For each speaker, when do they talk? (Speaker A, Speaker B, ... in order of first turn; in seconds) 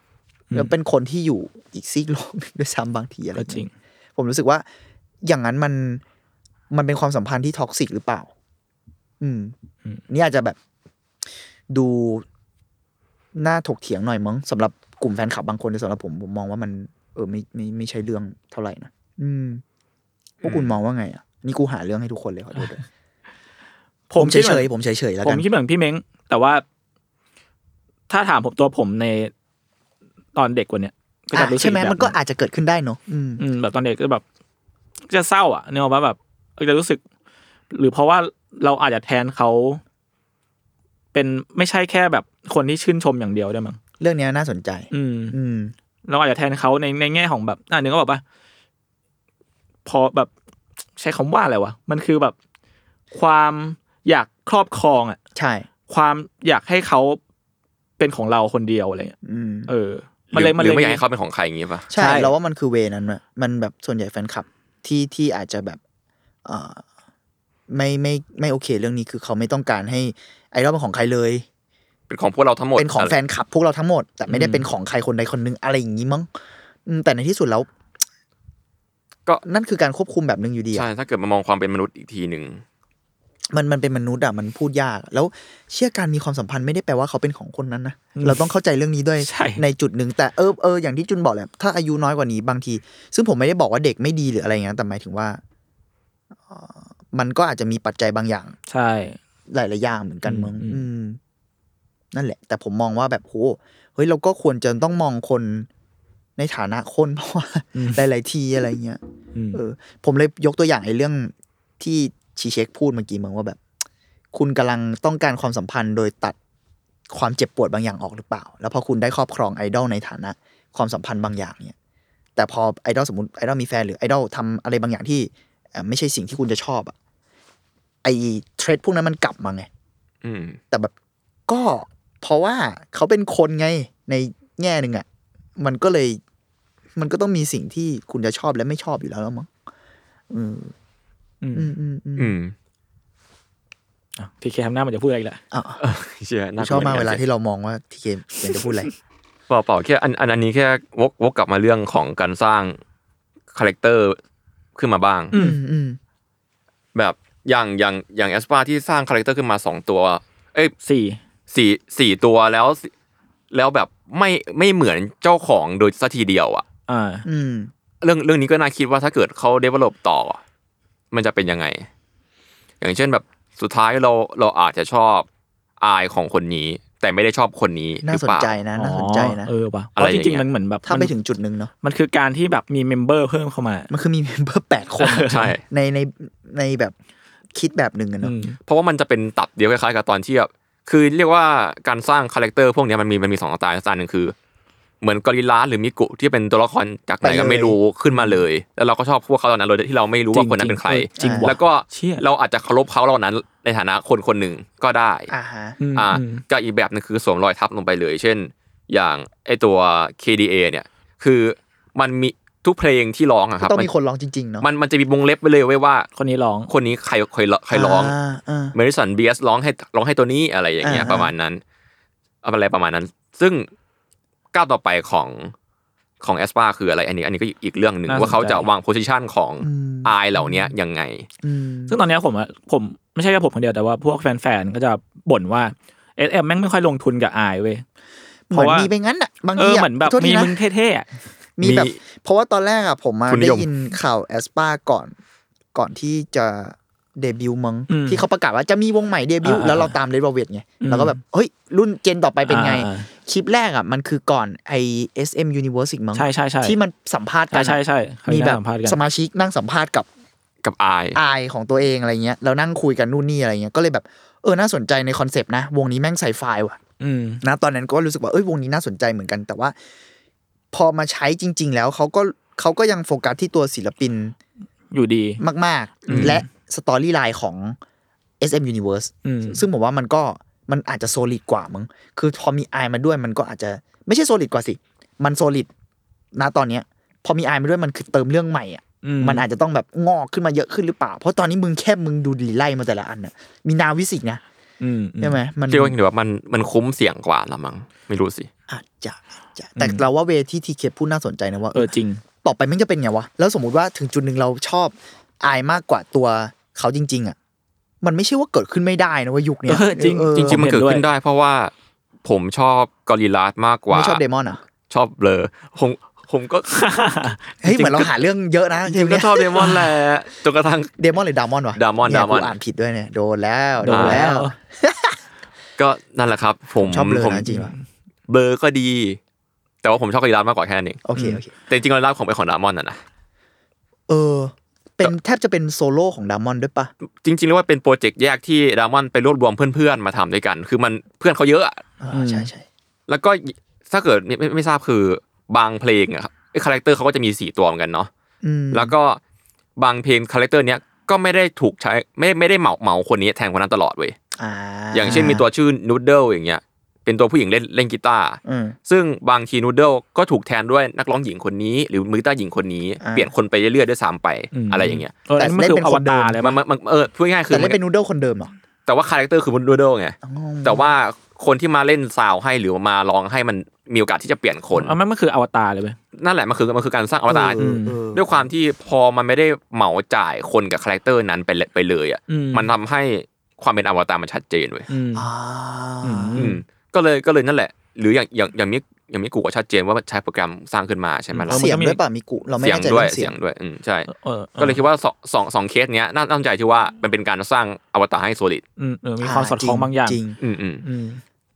Speaker A: 0.5-4.6, 5.2-6.0, 6.7-8.3, 9.2-9.5, 10.1-10.6, 11.7-12.2, 13.3-19.6, 20.4-22.8, 24.1-25.4, 31.3-33.4, 44.0-45.7, 55.3-55.7, 59.2-59.7, 61.9-65.8, 66.4-66.8, 67.7-71.4, 72.8-76.3, 76.8-77.7, 79.4-80.9, 83.5-95.4, 96.4-98.5, 99.5-101.2, 102.1-105.7, 106.4-109.0, 109.5-113.6, 114.3-116.3, 117.1-121.7, 122.3-126.9, 128.0-129.7, 131.5-135.1, 135.6-136.2, 136.9-139.5, 140.3-140.7, 141.5-142.3, 145.5-145.8, 146.6-148.9, 155.3-156.0, 167.2-167.7, 178.0-179.5, 180.8-181.7, 183.9-186.9, 187.5-188.3, 197.2-197.8, 201.2-201.5, 205.3-205.8, 213.6-214.7, 217.7-218.8, 220.8-221.3, 229.6-230.7, 231.4-232.0, 238.5-240.6, 241.6-245.1, 245.7-260.1, 261.1-266.8, 267.4-269.7, 270.7-274.4, 275.4-277.8, 278.4-285.7, 286.3-294.4, 295.2-295.9, 298.7-301.9, 302.4-307.4, 308.0-310.6, 313.9-314.6, 317.6-319.7, 321.0-325.2, 326.8-327.7, 331.0-331.5, 334.1-336.9, 342.0-342.6, 348.4-348.9, 354.4-355.5, 358.4-358.8, 363.0-363.3, 365.4-366.5, 367.5-368.5, 370.2-370.9, 377.3-378.5, 385.1-386.5, 391.5-393.3, 399.2-400.4
Speaker B: 3.3-3.7, 24.1-24.7, 25.2-26.6, 28.1-29.3, 30.3-32.1, 33.4-34.2, 35.1-37.0, 37.7-39.8, 41.1-43.8, 44.9-45.4, 46.1-48.2, 49.8-50.3, 51.0-52.3, 53.1-55.2, 55.9-57.2, 58.0-59.1, 59.7-61.0, 62.0-62.3, 74.3-74.6, 88.1-88.5, 89.2-89.6, 98.7-99.2, 100.2-100.8, 107.7-108.0, 109.3-109.6, 141.4-141.7, 144.2-145.4, 155.3-155.6, 160.8-161.2, 166.9-167.2, 178.8-181.1, 181.8-183.9, 185.0-185.5, 188.2-188.6, 200.3-202.2, 205.8-206.4, 216.2-216.7, 228.1-228.7, 231.9-237.8, 238.5-238.9, 239.6-241.1, 247.9-248.2, 249.4-249.9, 250.8-251.2, 252.5-253.1, 256.1-256.8, 257.5-259.0, 267.0-267.4, 274.9-275.4, 276.1-276.4, 279.2-279.6, 289.0-289.4, 294.8-295.4, 299.8-300.1, 301.7-302.2, 309.7-311.0, 316.7-318.1, 319.6-319.9, 323.8-324.5, 327.5-327.8, 342.1-342.5, 364.5-366.6, 374.7-376.0, 377.6-378.0, 382.3-382.7, 384.9-385.3, 386.0-386.6, 391.3-392.0, 394.1-394.8, 398.8-400.2, 400.8-401.2
Speaker C: 20.4-20.7, 60.3-61.9, 72.1-73.1, 80.7-82.6, 130.2-130.6, 142.2-142.5, 145.8-147.2, 149.5-152.8, 153.5-154.2, 154.8-155.3, 156.9-160.7, 161.5-162.9, 163.5-166.6, 168.0-170.4, 171.1-171.9, 172.8-175.2, 175.8-178.5, 180.0-180.4, 185.3-185.6, 188.7-194.3, 195.0-205.3, 205.9-213.9, 214.6-216.1, 216.7-218.1, 218.7-221.6, 222.4-223.7, 224.5-225.5, 226.2-231.3, 241.6-242.0, 243.3-243.7, 260.6-261.2, 276.1-276.4, 295.7-298.5, 310.4-311.7, 312.2-314.2, 314.9-316.9, 318.9-320.9, 321.8-322.5, 323.9-324.3, 325.8-327.5, 328.3-329.2, 329.8-333.0, 337.2-341.8, 343.1-348.1, 348.7-349.2, 349.8-354.1, 354.9-365.1, 366.4-367.8, 368.9-374.9, 376.2-377.6, 378.1-384.9, 386.4-391.6, 392.6-398.6, 400.4-400.8